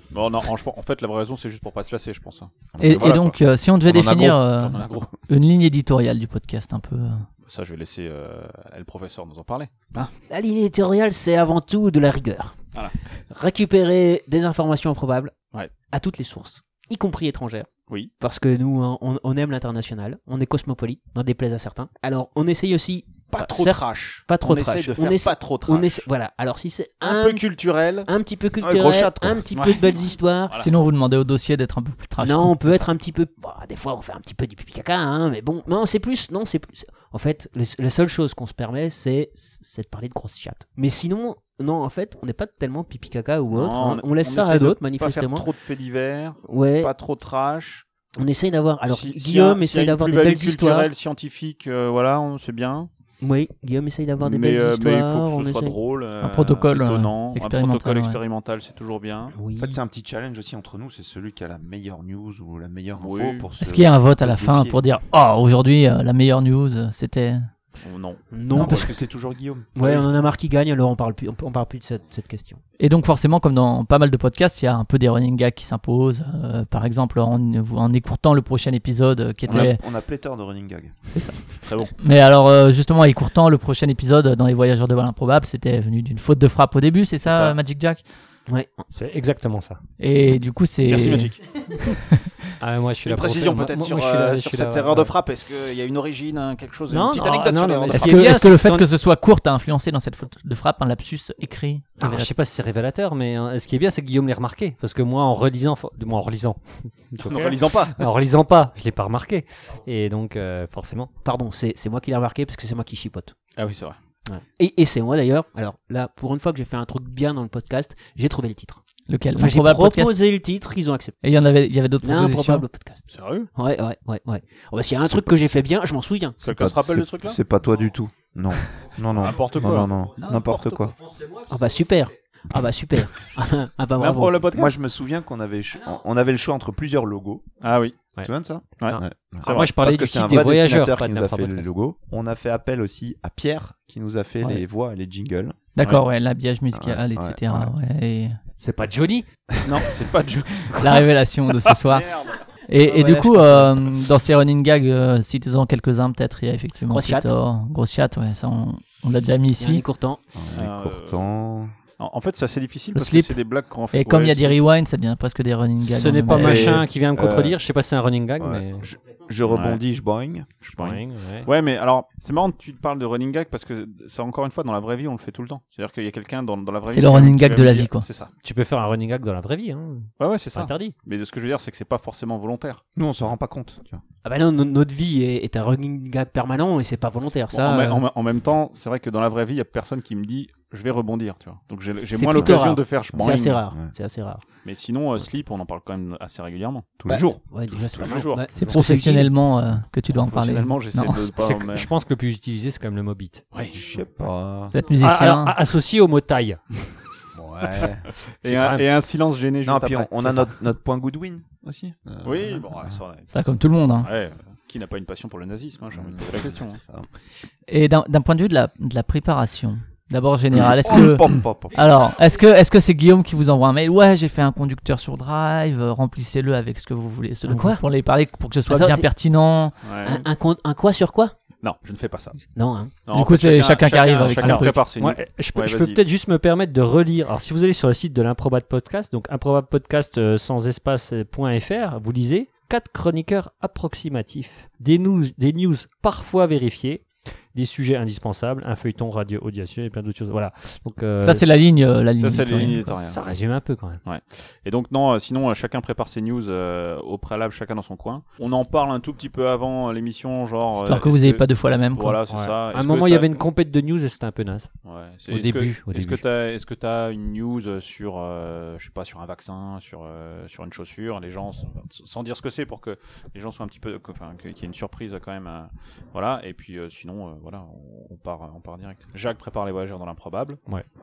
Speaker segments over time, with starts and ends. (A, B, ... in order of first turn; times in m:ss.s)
0:00.1-0:03.4 A
0:02.7-0:03.2 B
0:02.8-0:07.3 C
0:03.8-0:04.4 B
0:04.6-0:05.1 A
0:07.4-0:10.1 A
0:10.3-0:15.3 D
0:15.9-0:30.6 D
0:23.3-0:26.1 A
0:27.0-0:28.1 A
0:28.6-0:29.4 B
0:29.5-0:30.7 A
0:30.6-0:32.9 C
0:32.2-0:45.4 D
0:43.5-0:47.8 A
0:46.5-0:46.9 D
0:48.2-0:50.9 D
0:48.9-0:52.9 A
0:53.2-0:55.8 D
0:54.2-0:59.4 A
0:56.2-0:58.2 C
0:59.3-0:59.8 D
0:59.6-1:04.8 B
1:03.0-1:03.5 A
1:03.6-1:07.5 C
1:07.8-1:08.9 A
1:08.3-1:09.0 D
1:08.5-1:10.0 B
1:09.8-1:12.6 D
1:12.8-1:19.8 C
1:19.4-1:21.1 B
1:21.1-1:28.0 C
1:21.6-1:21.9 A
1:27.2-1:27.6 A
1:28.5-1:28.9 D
1:28.9-1:29.8 E
1:30.0-1:32.2 C
1:30.9-1:32.0 A
1:32.6-1:35.2 E
1:33.0-1:38.4 A
1:36.9-1:38.9 E
1:37.9-1:42.3 C
1:42.0-1:51.1 E
1:47.2-1:48.1 A
1:51.2-1:53.4 D
1:53.6-1:54.0 A
1:54.2-1:58.8 D
1:59.1-2:00.2 C
1:59.3-2:01.2 D
2:01.2-2:02.6 C
2:02.0-2:06.4 D
2:03.1-2:03.5 A
2:05.0-2:05.5 B
2:06.4-2:07.4 A
2:06.4-2:11.0 B
2:09.1-2:10.4 A
2:09.5-2:12.0 E
2:11.5-2:14.4 D
2:14.0-2:14.8 A
2:14.5-2:17.4 B
2:17.6-2:18.1 A
2:18.2-2:25.6 B
2:18.8-2:19.8 A
2:18.8-2:21.7 E
2:25.8-2:28.4 C
2:26.7-2:27.7 B
2:28.6-2:29.2 E
2:29.6-2:31.0 A
2:30.7-2:32.1 C
2:31.6-2:32.4 A
2:32.7-2:39.8 C
2:32.8-2:33.8 B
2:36.8-2:37.3 D
2:39.6-2:40.2 D
2:40.3-2:41.7 B
2:40.5-2:41.3 A
2:42.0-2:44.6 A
2:42.9-2:43.4 C
2:43.9-2:46.8 C
2:45.8-2:48.8 E
2:46.3-2:46.8 A
2:46.4-2:47.6 B
2:48.4-2:50.5 B
2:49.4-2:49.8 A
2:50.7-2:51.5 E
2:50.7-2:58.3 A
2:56.9-2:58.0 C
2:58.4-3:00.9 E
3:00.2-3:02.8 A
3:03.0-3:04.0 B
3:04.2-3:08.0 D
3:07.5-3:13.6 A
3:12.1-3:14.4 D
3:12.3-3:13.9 B
3:14.6-3:18.7 A
3:17.0-3:17.4 B
3:17.1-3:19.3 D
3:18.6-3:21.2 C
3:20.1-3:21.9 A
3:21.3-3:23.4 E
3:23.5-3:23.8 A
3:23.7-3:24.7 B
3:24.7-3:25.6 C
3:25.0-3:26.6 E
3:27.3-3:28.1 B
3:28.3-3:30.5 A
3:28.4-3:28.8 E
3:29.6-3:33.0 B
3:32.2-3:36.8 A
3:33.3-3:34.1 C
3:35.9-3:37.1 B
3:37.7-3:49.7 C
3:40.5-3:42.0 B
3:47.5-3:47.8 D
3:48.7-3:49.0 D
3:49.8-3:50.3 A
3:50.0-3:51.3 D
3:51.6-3:52.4 A
3:52.5-3:52.9 D
3:53.0-3:56.0 A
3:53.1-3:54.8 C
3:54.2-4:11.6 E
4:11.2-4:12.9 C
4:12.2-4:13.2 A
4:12.6-4:14.0 E
4:14.0-4:23.3 A
4:20.8-4:22.2 C
4:22.3-4:24.7 E
4:24.8-4:40.6 A
4:25.3-4:26.2 E